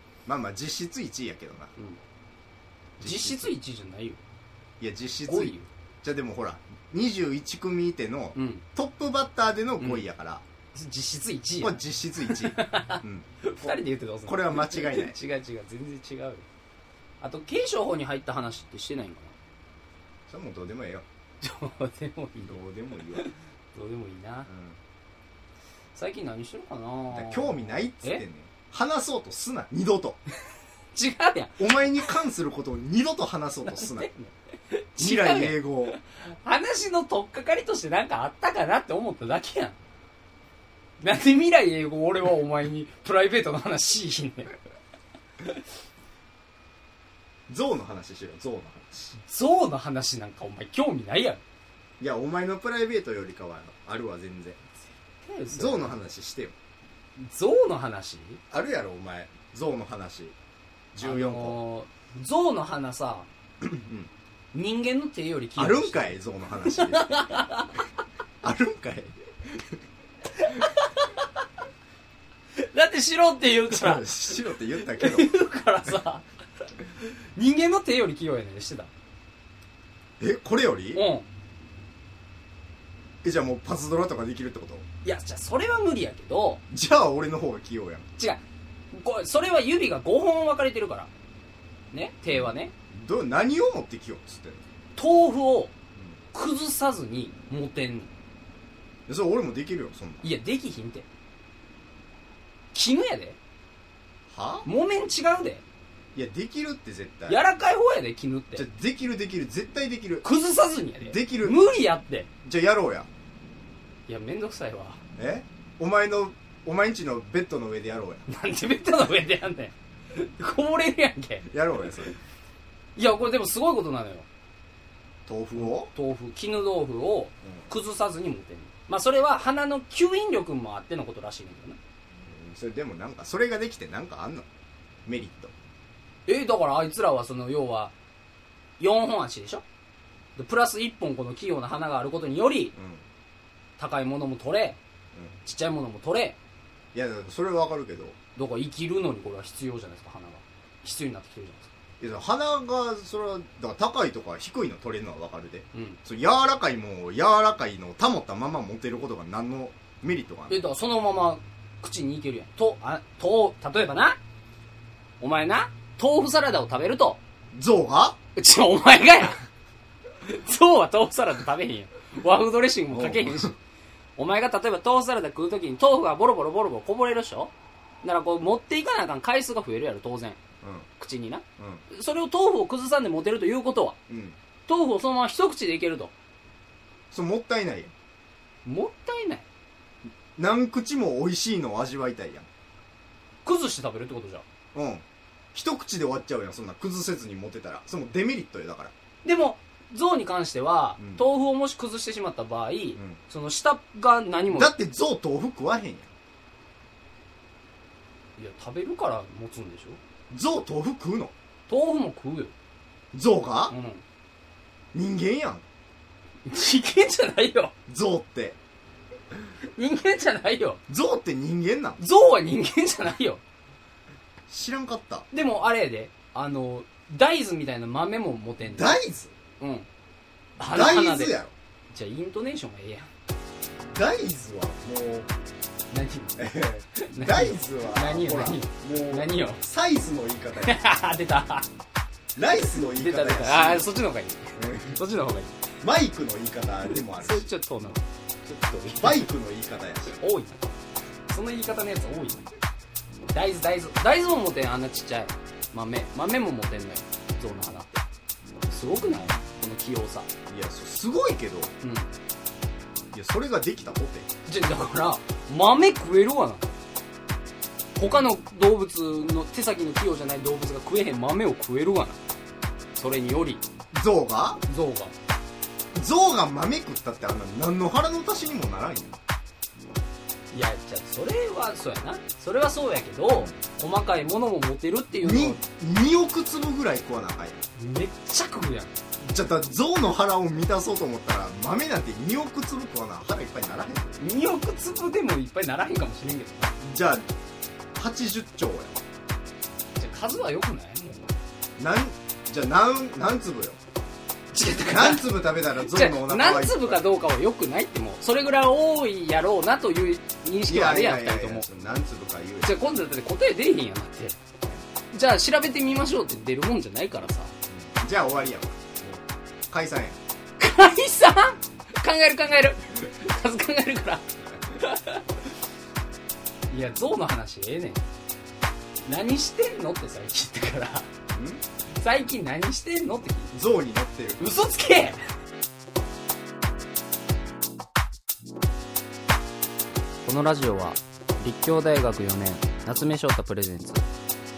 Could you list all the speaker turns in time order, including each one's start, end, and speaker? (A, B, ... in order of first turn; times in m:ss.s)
0:00.3-0:01.7 A
0:03.0-0:03.6 A
0:03.0-0:04.2 B
0:04.8-0:10.4 A
0:05.3-0:05.7 B
0:08.4-0:08.6 B
0:10.7-0:16.4 B
0:11.6-0:15.2 A
0:17.2-0:19.4 B
0:20.3-0:21.1 A
0:21.4-0:22.6 B
0:22.4-0:23.3 A
0:23.2-0:24.5 B
0:24.5-0:24.8 A
0:26.0-0:28.2 B
0:27.1-0:30.2 A
0:30.9-0:31.7 B
0:31.6-0:34.1 A
0:33.7-0:39.8 B
0:35.0-0:36.0 A
0:41.0-0:44.5 B
0:47.5-0:49.2 A
0:49.2-0:51.4 B
0:52.0-0:54.6 A
0:55.2-0:56.0 B
0:55.5-0:56.6 A
0:57.2-0:58.4 B
0:58.5-1:00.4 A
1:00.9-1:01.6 A
1:01.0-1:03.3 B
1:03.6-1:04.1 A
1:04.5-1:07.8 B
1:05.6-1:07.1 A
1:08.4-1:09.6 A
1:10.4-1:11.3 B
1:12.6-1:18.9 B
1:13.7-1:15.3 A
1:20.2-1:21.0 A
1:21.0-1:21.3 B
1:23.2-1:24.8 A
1:25.0-1:26.6 B
1:26.7-1:28.1 A
1:28.9-1:31.1 B
1:31.9-1:32.7 B
1:32.3-1:34.7 A
1:35.0-1:35.7 B
1:36.3-1:38.1 B
1:39.1-1:40.3 A
1:40.2-1:41.1 B
1:42.7-1:43.4 B
1:44.3-1:44.7 A
1:44.6-1:45.6 B
1:46.2-1:47.4 A
1:47.3-1:48.7 B
1:48.6-1:50.3 A
1:50.2-1:52.3 B
1:51.0-1:51.8 A
1:52.4-1:53.1 A
1:54.1-1:55.0 B
1:55.2-1:58.2 A
1:58.3-2:01.5 B
2:01.5-2:02.2 A
2:03.0-2:04.3 B
2:05.3-2:05.9 A
2:05.6-2:11.8 B
2:07.4-2:07.7 A
2:12.1-2:14.5 A
2:15.1-2:15.5 A
2:16.3-2:17.9 B
2:18.8-2:19.6 B
2:20.4-2:22.7 B
2:22.7-2:23.1 A
2:23.8-2:24.8 B
2:25.4-2:26.4 B
2:26.9-2:28.2 A
2:28.4-2:31.7 B
2:32.0-2:40.6 A
2:35.7-2:36.0 B
2:40.5-2:44.2 B
2:45.2-2:47.2 B
2:47.5-2:48.2 A
2:48.4-2:49.4 B
2:50.2-2:53.6 B
2:52.9-2:53.5 A
2:54.2-2:57.5 B
2:58.0-3:00.4 B
3:00.6-3:00.9 A
3:01.0-3:04.0 B
3:01.6-3:01.8 A
3:04.1-3:04.4 A
3:04.7-3:06.1 B
3:07.1-3:07.9 A
3:08.6-3:09.5 B
3:10.4-3:12.5 A
3:13.4-3:14.4 B
3:14.7-3:18.9 A
3:19.2-3:24.7 B
3:21.0-3:21.3 A
3:24.5-3:26.1 A
3:28.4-3:30.0 B
3:30.3-3:31.3 A
3:31.7-3:32.5 B
3:33.1-3:33.8 A
3:33.7-3:34.0 B
3:34.9-3:35.6 A
3:36.5-3:37.7 B
3:37.9-3:38.6 A
3:39.8-3:40.8 B
3:40.9-3:42.0 A
3:42.0-3:43.4 B
3:44.5-3:45.3 A
3:45.3-3:49.0 B
3:48.6-3:49.4 A
3:49.6-3:49.9 B
3:50.6-3:51.5 A
3:50.6-3:51.4 B
3:51.9-3:53.1 B
3:53.8-3:55.3 A
3:55.9-3:59.6 B
3:56.4-4:00.8 A
4:00.6-4:01.7 B
4:02.4-4:03.9 A
4:02.5-4:05.6 B
4:04.6-4:05.0 A
4:05.8-4:07.5 A
4:06.9-4:09.3 B
4:09.0-4:10.2 A
4:10.1-4:10.7 B
4:11.3-4:12.5 B
4:13.3-4:18.0 B
4:18.7-4:19.4 A
4:18.7-4:20.3 B
4:20.5-4:21.8 A
4:21.8-4:22.1 B
4:23.1-4:24.3 A
4:24.5-4:26.7 B
4:28.0-4:32.2 B
4:33.0-4:33.6 B
4:33.9-4:34.6 A
4:34.7-4:35.1 B
4:35.9-4:39.2 A
4:40.5-4:45.6 B
4:43.3-4:43.6 A
4:45.2-4:47.6 A
4:47.8-4:49.0 B
4:49.2-4:54.2 A
4:54.2-4:56.8 B
4:56.8-4:57.3 A
4:58.0-4:59.0 A
5:00.0-5:01.3 B
5:01.8-5:03.8 A
5:04.5-5:11.7 B
5:04.7-5:07.1 A
5:10.7-5:12.8 A
5:12.6-5:14.4 B
5:15.1-5:17.5 B
5:17.7-5:20.2 A
5:20.6-5:25.4 B
5:26.7-5:28.1 B
5:29.0-5:31.1 B
5:31.4-5:31.6 A
5:32.0-5:33.6 B
5:33.5-5:34.4 A
5:34.4-5:35.2 B
5:40.2-5:44.1 B